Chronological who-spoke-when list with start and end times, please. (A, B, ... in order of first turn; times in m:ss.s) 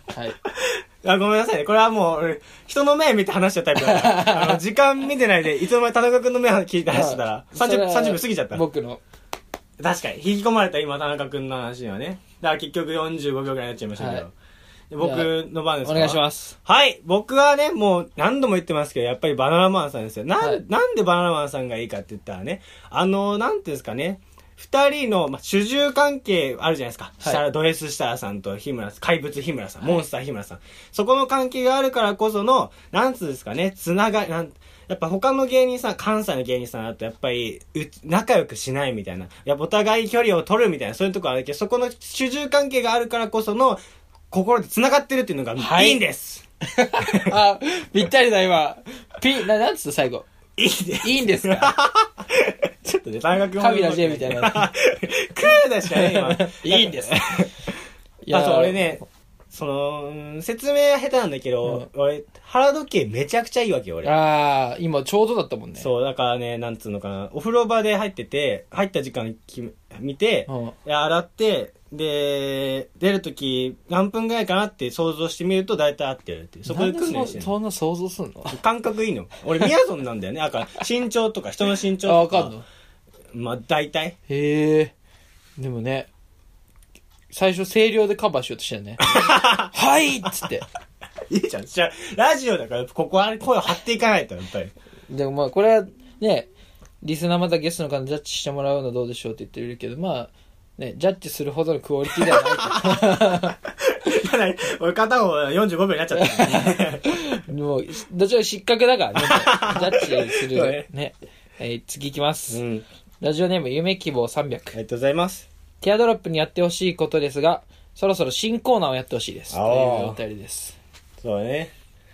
0:00.1-0:00.4 A
0:00.5-0:08.6 B
0:03.8-0:04.6 A
0:06.9-0:09.0 A
0:09.8-0:14.3 B
0:14.0-0:14.3 A
0:14.9-0:46.4 B
0:15.0-0:16.6 A
0:45.6-0:46.0 A
0:46.7-0:50.3 A
0:47.0-0:47.3 B
0:50.6-0:57.7 B
0:51.0-0:51.8 A
0:53.6-0:54.7 A
0:55.9-0:57.4 A
0:58.2-0:59.0 A
0:58.3-1:04.1 B
1:04.0-1:05.9 A
1:05.8-1:17.5 B
1:10.5-1:10.8 A
1:16.7-1:18.6 A
1:18.5-1:22.5 B
1:22.0-1:22.6 A
1:23.3-1:24.2 B
1:24.3-1:24.9 A
1:25.6-1:26.1 A
1:27.3-1:30.6 A
1:29.0-1:29.7 B
1:31.3-1:34.7 B
1:35.1-1:36.5 A
1:37.0-1:43.6 A
1:42.2-1:47.2 B
1:46.1-1:52.6 A
1:49.2-1:50.9 B
1:52.5-1:52.8 B
1:53.2-1:54.8 A
1:54.7-1:55.5 B
1:55.8-2:00.8 A
1:59.5-2:00.2 B
2:01.2-2:01.7 B